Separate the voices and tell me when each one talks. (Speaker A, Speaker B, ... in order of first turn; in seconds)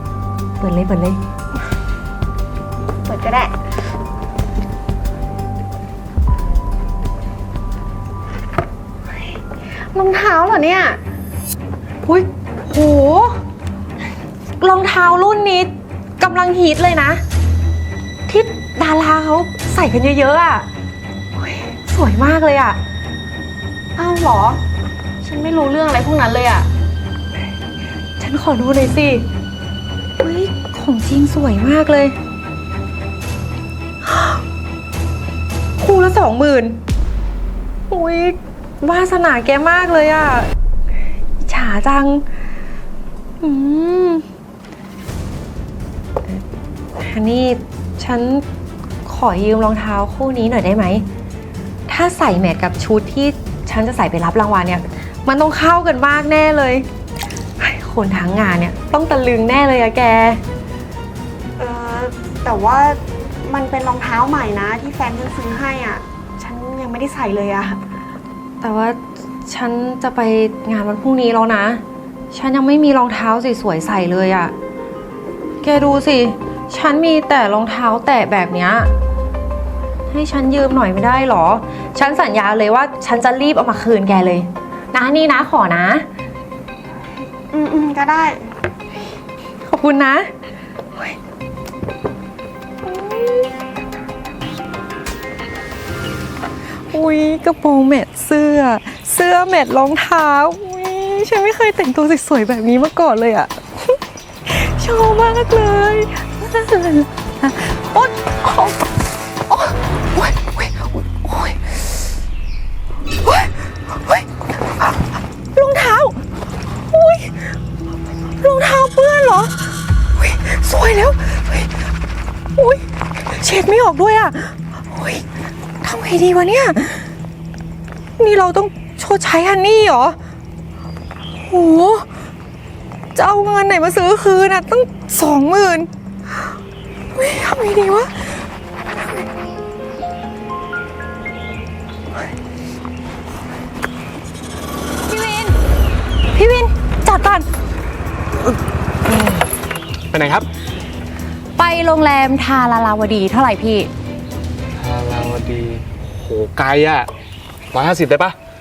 Speaker A: 0.6-1.2, 12.0-13.4, 14.6-17.2, 18.3-20.7, 21.6-22.8, 28.2-29.2, 30.2-32.1, 34.1-34.4, 35.8-36.8, 37.9-40.5, 41.4-42.2, 43.4-44.2, 47.0-48.4, 49.0-51.0, 51.9-56.9, 57.6-60.4, 68.6-74.5, 75.6-78.9, 80.1-86.0, 89.6-90.3, 92.8-93.5, 96.9-108.8, 109.5-111.6, 113.2-114.3, 115.5-116.2, 116.9-117.5, 118.4-119.5, 120.2-121.7, 122.5-125.2, 125.8-127.1, 128.2-130.2, 131.4-132.1, 133.1-135.9, 137.1-138.2, 145.1-145.6, 146.3-147.5, 151.6-153.9
Speaker B: 3.0-3.5, 9.9-11.0, 24.0-24.6, 25.2-26.7, 61.6-67.8, 87.5-88.4
Speaker C: 150.1-150.4, 154.8-157.1, 157.7-158.3